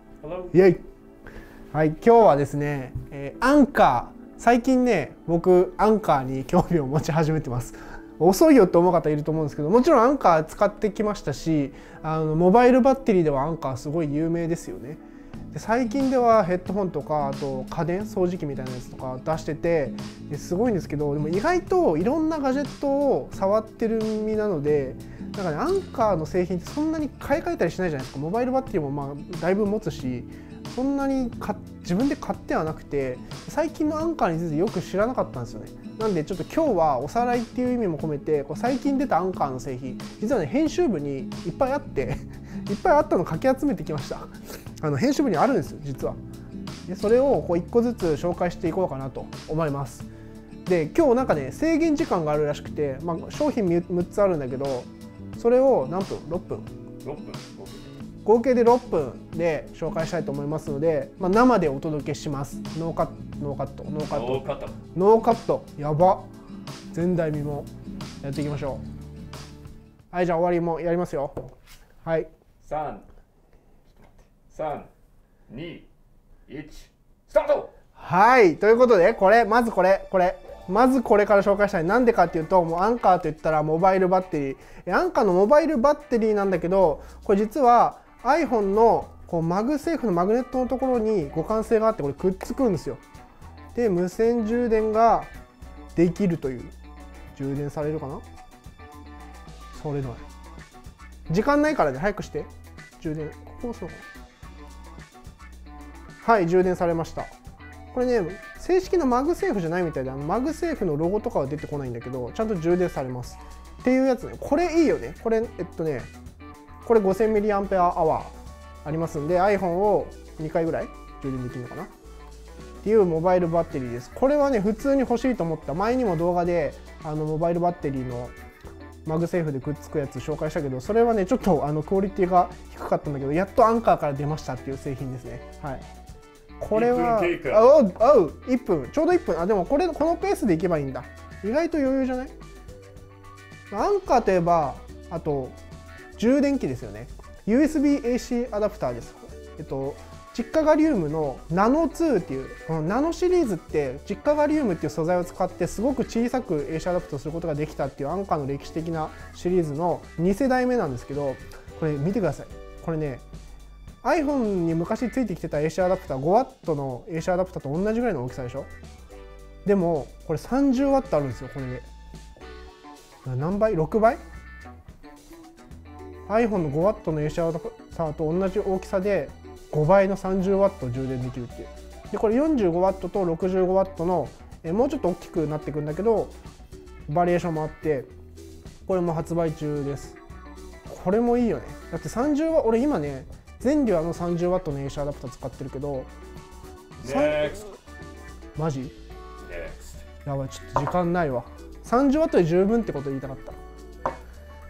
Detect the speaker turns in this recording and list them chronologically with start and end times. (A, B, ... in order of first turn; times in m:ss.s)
0:00.2-0:00.5 A
0:00.5-0:00.8 B
0:01.7-0:15.0 B
0:15.5-0:46.2 B
0:46.9-0:50.1 B
0:50.6-0:56.7 B
0:57.0-0:58.0 A
0:58.2-1:06.3 B
1:04.1-1:04.8 A
1:06.9-1:07.7 B
1:08.2-1:08.8 B
1:10.1-1:11.4 B
1:12.0-1:12.3 B
1:12.6-1:13.1 A
1:13.9-1:14.9 A
1:15.5-1:15.9 A
1:16.5-1:17.7 A
1:18.0-1:33.0 B
1:33.7-1:35.3 B
1:36.0-1:36.8 B
1:37.3-1:38.2 B
1:39.7-1:40.2 B
1:41.3-1:44.0 B
1:46.2-1:47.3 B
1:47.9-1:56.1 B
1:56.8-2:01.9 B
2:02.8-2:08.3 B
2:09.0-2:15.9 B
2:16.6-2:22.3 B
2:16.7-2:17.6 A
2:23.7-2:25.6 B
2:26.2-2:43.2 B
2:44.0-2:48.7 B
2:49.6-2:51.9 B
2:53.2-2:54.2 B
2:56.3-3:06.3 B
3:07.1-3:08.1 B
3:08.9-3:10.2 B
3:10.9-3:16.1 B
3:17.0-3:17.6 B
3:17.0-3:17.7 A
3:18.6-3:19.0 B
3:19.4-3:20.0 A
3:20.2-3:23.6 B